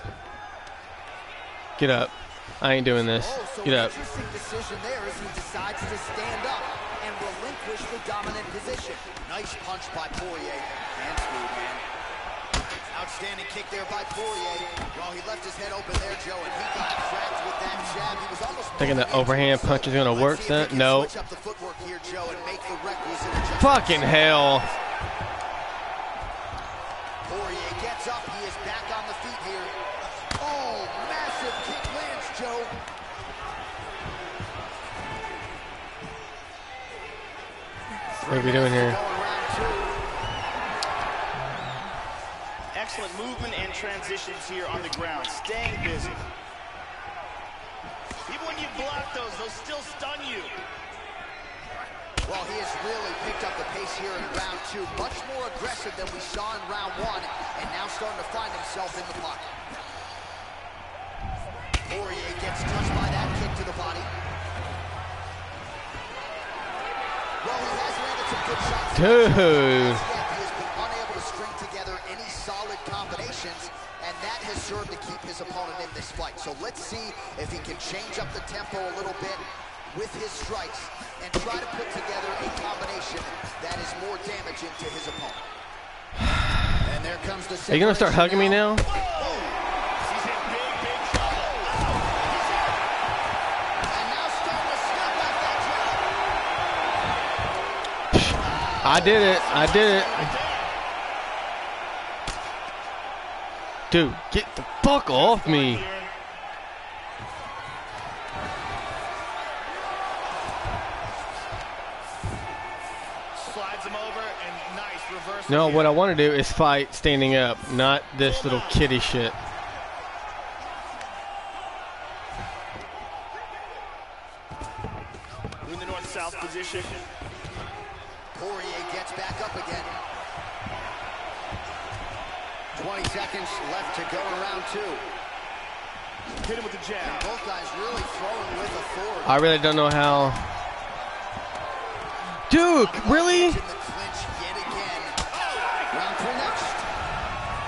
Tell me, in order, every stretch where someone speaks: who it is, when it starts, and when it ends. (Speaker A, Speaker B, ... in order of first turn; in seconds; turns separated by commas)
Speaker A: 1.8-3.9, Speaker B: 3.2-11.8, Speaker B: 12.9-24.6, Speaker A: 18.8-21.1, Speaker A: 23.5-24.7, Speaker B: 27.2-29.8, Speaker B: 30.4-32.8, Speaker B: 38.2-40.0, Speaker A: 38.3-39.0, Speaker C: 42.7-46.2, Speaker C: 48.3-50.6, Speaker B: 52.2-59.5, Speaker B: 61.8-64.1, Speaker B: 67.4-85.4, Speaker A: 68.9-70.0, Speaker A: 86.2-86.7, Speaker B: 86.8-89.5, Speaker A: 87.7-88.9, Speaker C: 88.8-92.8, Speaker B: 93.9-96.0, Speaker A: 98.1-100.3, Speaker B: 98.8-99.6, Speaker C: 99.1-100.7, Speaker A: 103.9-105.8, Speaker C: 105.1-106.1, Speaker C: 113.3-116.0, Speaker A: 115.5-119.4, Speaker C: 118.2-118.8, Speaker C: 125.6-127.0, Speaker B: 128.3-129.9, Speaker B: 132.8-135.1, Speaker C: 136.4-137.3, Speaker B: 137.0-139.4, Speaker A: 139.2-140.5, Speaker A: 142.5-143.6, Speaker B: 142.8-145.2, Speaker C: 145.3-145.9, Speaker B: 145.9-146.9